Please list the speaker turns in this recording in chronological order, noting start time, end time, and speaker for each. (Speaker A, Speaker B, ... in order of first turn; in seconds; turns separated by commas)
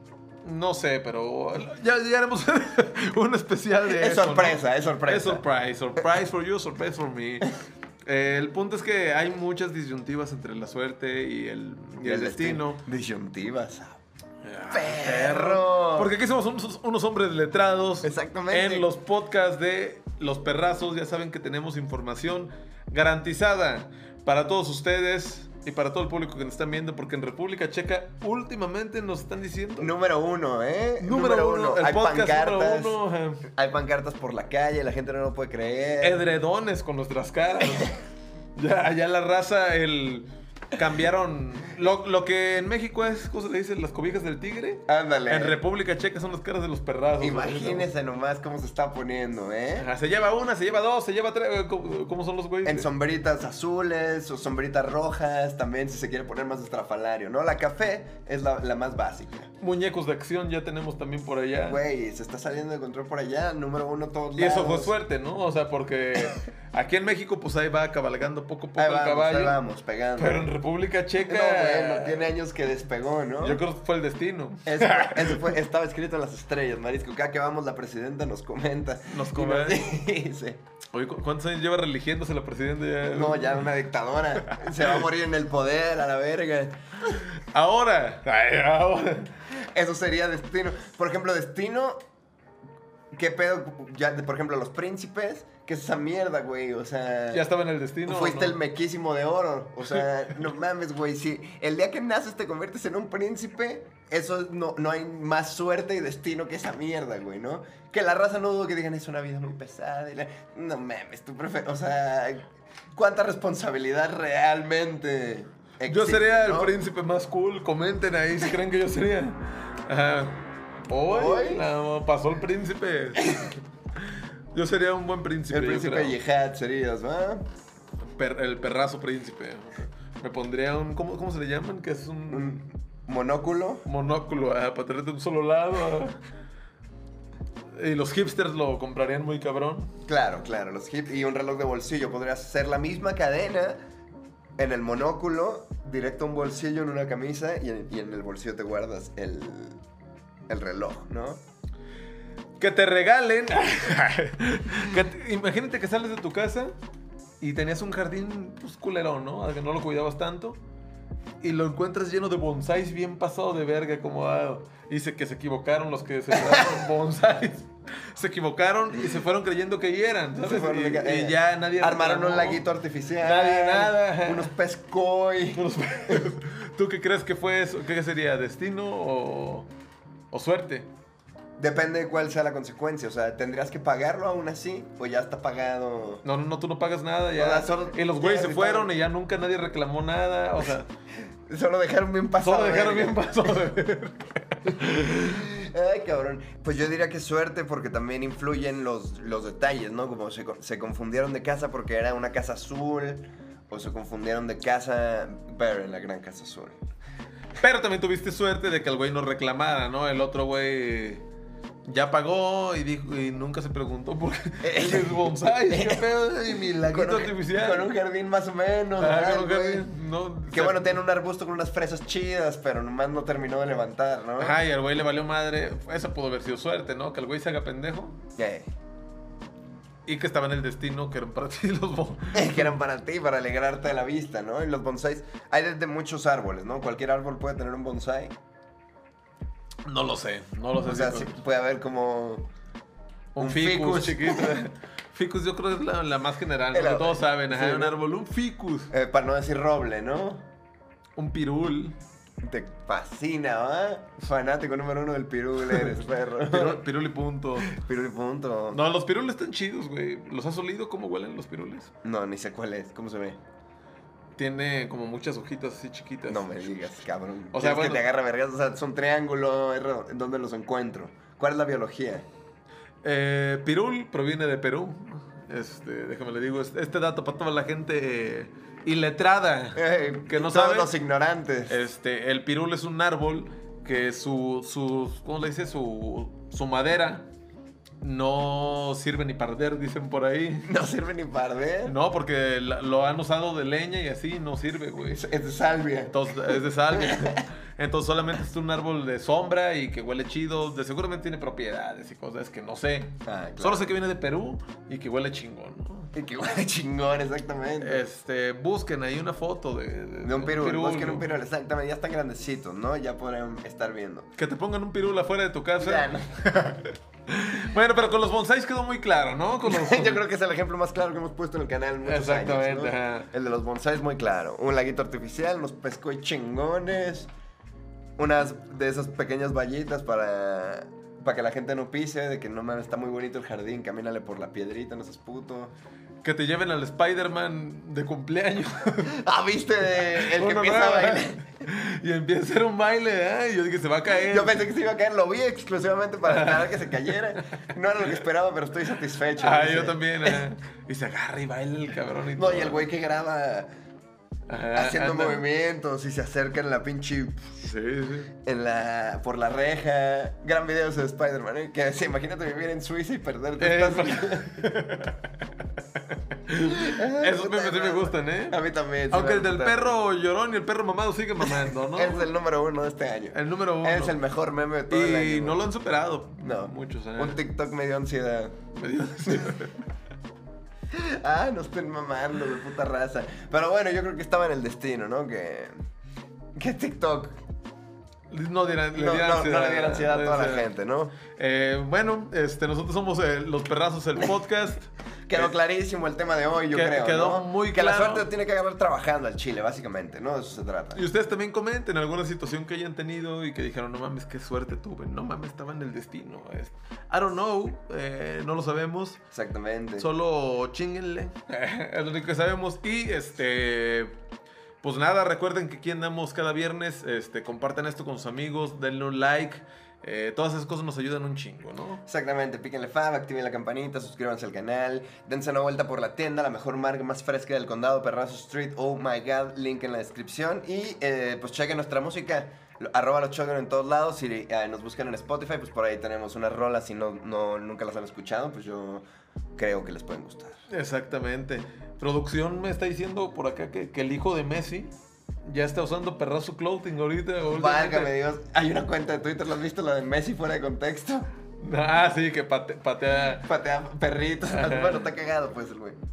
Speaker A: 0.4-7.5, Speaker B: 3.9-5.4, Speaker A: 8.1-12.8, Speaker B: 12.0-14.0, Speaker A: 14.4-29.9, Speaker B: 14.7-16.1, Speaker B: 18.0-18.9, Speaker B: 29.8-36.2, Speaker A: 31.0-33.5, Speaker A: 36.0-38.0, Speaker A: 38.6-47.9, Speaker B: 44.9-45.6, Speaker B: 47.2-49.9, Speaker A: 49.8-52.9, Speaker B: 52.6-59.5, Speaker A: 59.6-61.8, Speaker B: 61.7-64.9, Speaker A: 64.4-69.6, Speaker B: 68.8-70.5, Speaker A: 70.2-72.3, Speaker B: 71.3-73.6, Speaker A: 73.4-75.5, Speaker B: 74.7-80.6, Speaker A: 79.1-79.9, Speaker A: 80.9-83.6, Speaker B: 83.1-86.8, Speaker A: 87.1-89.3, Speaker B: 89.5-92.0, Speaker B: 93.1-97.4, Speaker A: 97.3-98.6, Speaker B: 98.0-116.8, Speaker A: 115.9-126.2, Speaker B: 121.1-121.6, Speaker B: 125.5-127.5, Speaker A: 128.2-132.7, Speaker B: 132.3-133.9, Speaker A: 133.9-136.2, Speaker A: 137.8-139.9, Speaker B: 140.1-143.8, Speaker B: 144.6-149.8, Speaker B: 150.5-151.4, Speaker A: 152.6-156.7, Speaker A: 157.4-160.6, Speaker A: 161.4-172.6, Speaker B: 166.3-166.8, Speaker B: 170.4-176.3, Speaker A: 173.2-174.5, Speaker A: 175.6-179.7, Speaker A: 180.3-180.9, Speaker B: 181.6-186.2, Speaker A: 186.2-190.9, Speaker B: 187.4-188.9, Speaker B: 191.5-193.2, Speaker A: 192.4-195.4, Speaker B: 195.1-206.8, Speaker A: 207.6-211.2, Speaker A: 211.8-217.9, Speaker B: 214.6-219.9, Speaker A: 219.0-221.0, Speaker B: 220.5-224.6, Speaker A: 224.4-228.2, Speaker B: 228.4-228.7, Speaker A: 230.1-232.7, Speaker B: 232.3-238.3, Speaker A: 239.8-241.3, Speaker B: 240.8-242.4, Speaker A: 243.3-248.9, Speaker B: 243.4-244.6, Speaker B: 246.7-248.0, Speaker B: 248.9-250.5, Speaker A: 251.2-252.0, Speaker B: 252.4-256.8, Speaker A: 256.4-257.8, Speaker B: 257.6-258.8, Speaker A: 258.7-261.9, Speaker B: 262.0-263.4, Speaker A: 264.4-266.9, Speaker B: 266.3-272.3, Speaker A: 267.5-268.0, Speaker A: 273.0-280.9, Speaker B: 279.8-281.8, Speaker A: 281.7-287.3, Speaker A: 288.0-290.7, Speaker B: 290.6-292.0, Speaker A: 291.9-295.3, Speaker B: 295.1-297.4, Speaker A: 296.1-306.1, Speaker B: 303.3-303.9, Speaker B: 306.1-308.0, Speaker A: 307.8-311.3, Speaker B: 310.2-314.3, Speaker A: 314.4-320.2, Speaker B: 315.8-316.5, Speaker B: 319.6-327.3, Speaker A: 322.0-323.3, Speaker B: 328.2-335.7, Speaker A: 336.2-339.2, Speaker B: 339.1-341.4, Speaker A: 340.1-344.6, Speaker B: 344.1-350.4, Speaker A: 346.3-346.9, Speaker A: 349.4-352.9, Speaker B: 352.4-353.7, Speaker A: 354.5-355.4, Speaker B: 354.7-357.5, Speaker A: 357.6-358.3, Speaker B: 358.4-364.8, Speaker A: 363.6-365.2, Speaker A: 366.1-368.6, Speaker B: 366.6-369.9, Speaker A: 369.1-372.3, Speaker B: 371.4-375.7, Speaker A: 373.3-374.2, Speaker A: 374.9-377.4, Speaker B: 376.4-378.6, Speaker A: 378.7-379.8, Speaker B: 380.9-385.7, Speaker B: 386.6-387.4, Speaker A: 388.3-390.7, Speaker B: 388.9-391.1, Speaker A: 391.4-395.5, Speaker B: 395.3-401.0, Speaker A: 396.7-398.3, Speaker A: 400.9-409.2, Speaker B: 409.3-410.1, Speaker A: 410.0-414.1, Speaker A: 414.8-422.0, Speaker B: 422.1-439.1, Speaker B: 439.6-440.6, Speaker A: 440.7-444.9, Speaker A: 445.4-448.1, Speaker B: 447.5-451.3, Speaker A: 451.6-453.5, Speaker B: 453.4-456.0, Speaker A: 454.4-455.1